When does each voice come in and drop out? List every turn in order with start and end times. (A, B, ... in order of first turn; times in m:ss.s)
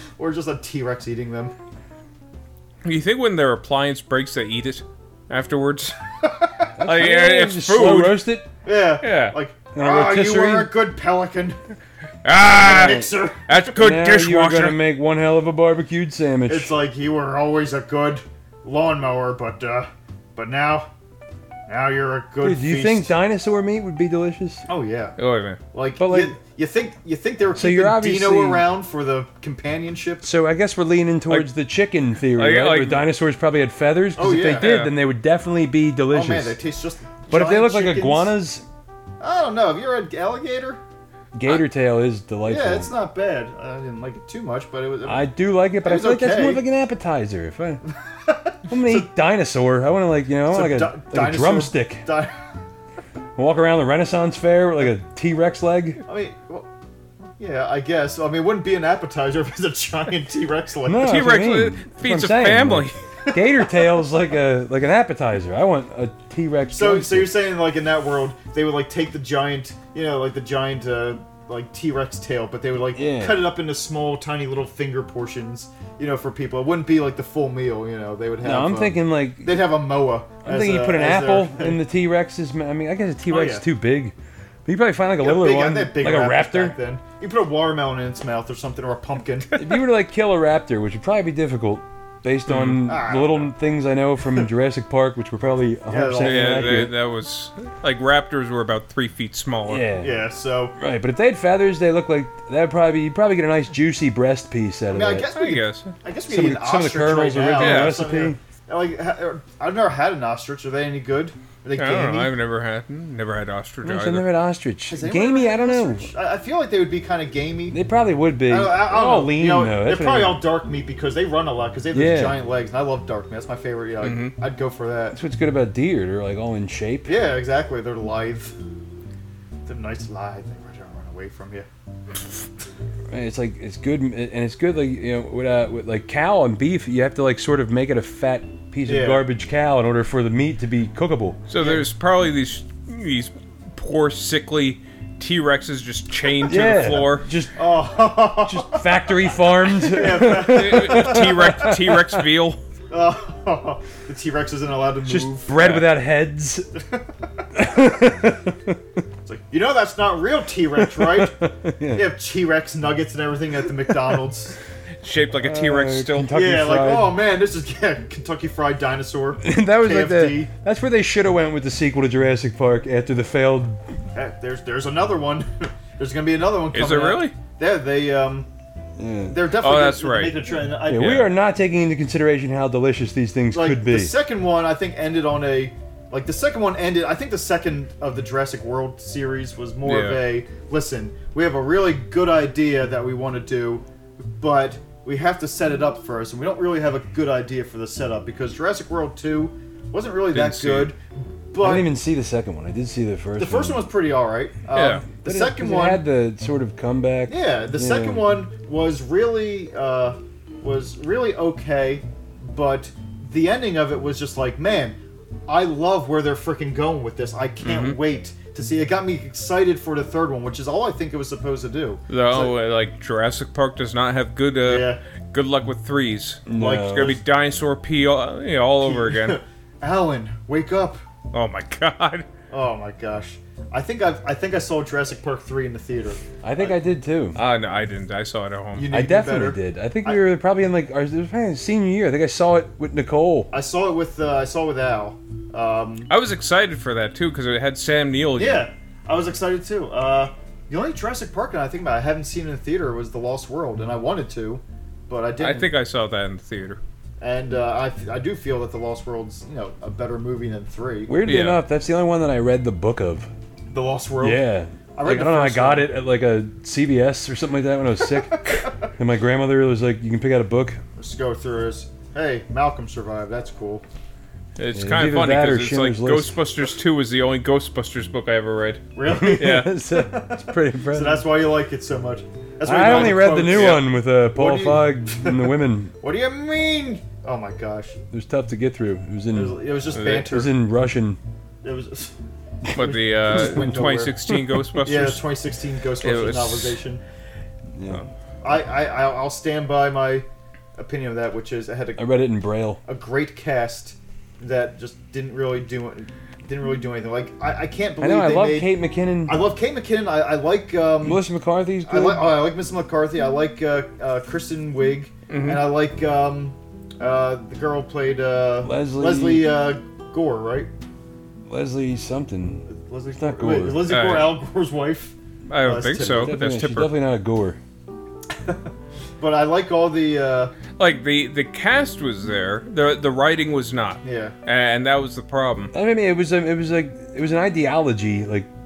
0:00.2-0:01.5 A
0:02.8-0:06.0 B
0:06.8-0:08.5 C
0:06.8-0:08.2 B
0:08.6-0:11.6 A
0:09.0-0:09.4 B
0:09.8-0:10.7 C
0:12.2-0:14.8 B
0:12.5-0:13.6 A
0:12.7-0:13.1 C
0:13.8-0:16.7 C
0:16.5-0:20.9 A
0:21.7-0:23.2 A
0:22.4-0:24.6 C
0:24.7-0:25.2 A
0:25.2-0:25.6 B
0:25.7-0:30.3 A
0:26.0-0:26.4 C
0:27.6-0:28.7 C
0:30.2-0:36.6 C
0:32.4-0:33.0 B
0:34.2-0:34.8 A
0:34.6-0:34.9 B
0:36.1-0:38.4 A
0:37.3-0:38.6 C
0:39.2-0:40.8 A
0:41.3-0:42.9 C
0:42.5-0:46.6 A
0:45.1-0:47.8 C
0:47.9-0:49.1 A
0:48.7-0:52.0 C
0:50.5-0:52.4 A
0:53.4-0:56.0 C
0:56.1-0:56.7 A
0:57.4-1:01.3 A
1:00.8-1:07.3 C
1:01.0-1:03.0 B
1:03.2-1:03.6 A
1:06.7-1:21.8 A
1:13.0-1:13.5 C
1:18.4-1:19.6 C
1:20.4-1:24.1 C
1:23.3-1:23.6 A
1:24.7-1:26.8 C
1:25.2-1:29.6 A
1:29.6-1:36.9 C
1:32.5-1:32.8 B
1:32.8-1:33.5 A
1:35.9-1:36.9 A
1:36.2-1:39.9 B
1:39.7-1:40.2 C
1:40.0-1:40.8 A
1:40.8-1:45.3 C
1:44.9-1:52.3 A
1:45.4-1:45.9 B
1:46.3-1:48.4 C
1:47.6-1:48.0 B
1:51.8-1:54.3 B
1:53.8-1:56.1 C
1:54.9-1:57.8 A
1:57.7-2:00.4 C
1:58.5-2:05.2 A
2:01.9-2:02.4 C
2:04.0-2:04.3 B
2:05.1-2:07.2 C
2:07.1-2:08.6 A
2:09.7-2:11.7 A
2:13.1-2:21.4 C
2:18.9-2:19.2 A
2:21.5-2:27.3 B
2:21.6-2:21.9 A
2:26.5-2:27.6 C
2:27.6-2:31.4 A
2:28.5-2:32.3 C
2:30.3-2:32.6 B
2:32.9-2:35.6 A
2:35.1-2:36.7 C
2:35.6-2:35.9 B
2:36.8-2:37.0 A
2:37.5-2:38.8 C
2:39.2-2:44.6 A
2:40.8-2:42.1 C
2:45.0-2:46.3 B
2:45.4-2:47.2 C
2:46.3-2:50.5 A
2:49.4-2:53.8 C
2:54.2-2:58.5 A
2:56.7-2:57.3 B
2:59.0-2:59.4 C
2:59.3-3:01.3 A
2:59.6-3:00.4 B
3:00.9-3:04.1 C
3:03.5-3:13.8 A
3:09.9-3:10.2 B
3:14.4-3:21.9 A
3:20.3-3:20.9 B
3:21.6-3:23.9 C
3:23.4-3:26.0 A
3:24.7-3:25.0 B
3:25.2-3:28.3 C
3:27.3-3:35.0 A
3:35.5-3:42.5 A
3:37.6-3:38.0 B
3:42.1-3:49.4 B
3:44.6-3:45.0 A
3:46.5-3:47.2 C
3:46.6-3:47.2 A
3:48.8-3:51.0 A
3:51.3-3:52.3 B
3:52.5-3:56.7 A
3:56.4-3:57.4 C
3:57.4-3:58.9 B
3:58.8-4:00.2 A
3:58.9-4:03.5 C
4:03.5-4:06.1 A
4:06.1-4:08.7 B
4:08.4-4:15.7 A
4:15.4-4:16.8 B
4:17.2-4:21.2 A
4:21.1-4:23.3 C
4:21.3-4:21.6 B
4:23.7-4:24.4 A
4:24.2-4:30.8 C
4:25.0-4:25.9 A
4:28.2-4:28.9 A
4:31.0-4:33.8 A
4:34.6-4:38.8 B
4:34.8-4:36.4 C
4:38.9-4:48.0 A
4:39.1-4:41.3 C
4:39.4-4:39.7 B
4:42.6-4:45.9 C
4:42.9-4:43.8 B
4:48.1-4:51.2 C
4:49.3-4:50.5 A
4:50.0-4:50.2 B
4:51.6-4:52.1 A
4:52.6-4:53.8 C
4:52.8-4:55.2 B
4:52.8-4:54.2 A
4:54.3-4:54.6 C
4:54.8-4:57.0 A
4:56.0-4:56.8 B
4:57.8-4:58.0 C
4:58.4-5:02.0 A
5:02.0-5:02.8 C
5:02.8-5:08.7 A
5:08.0-5:09.4 C
5:09.3-5:11.2 A
5:11.0-5:12.3 C
5:11.8-5:20.7 A
5:15.3-5:15.7 B
5:18.6-5:19.5 C
5:21.5-5:23.9 C
5:22.7-5:26.4 A
5:23.9-5:24.4 B
5:25.5-5:26.9 B
5:26.0-5:27.6 C
5:28.4-5:30.5 A
5:30.8-5:35.7 B
5:34.0-5:34.4 A
5:35.7-5:38.5 C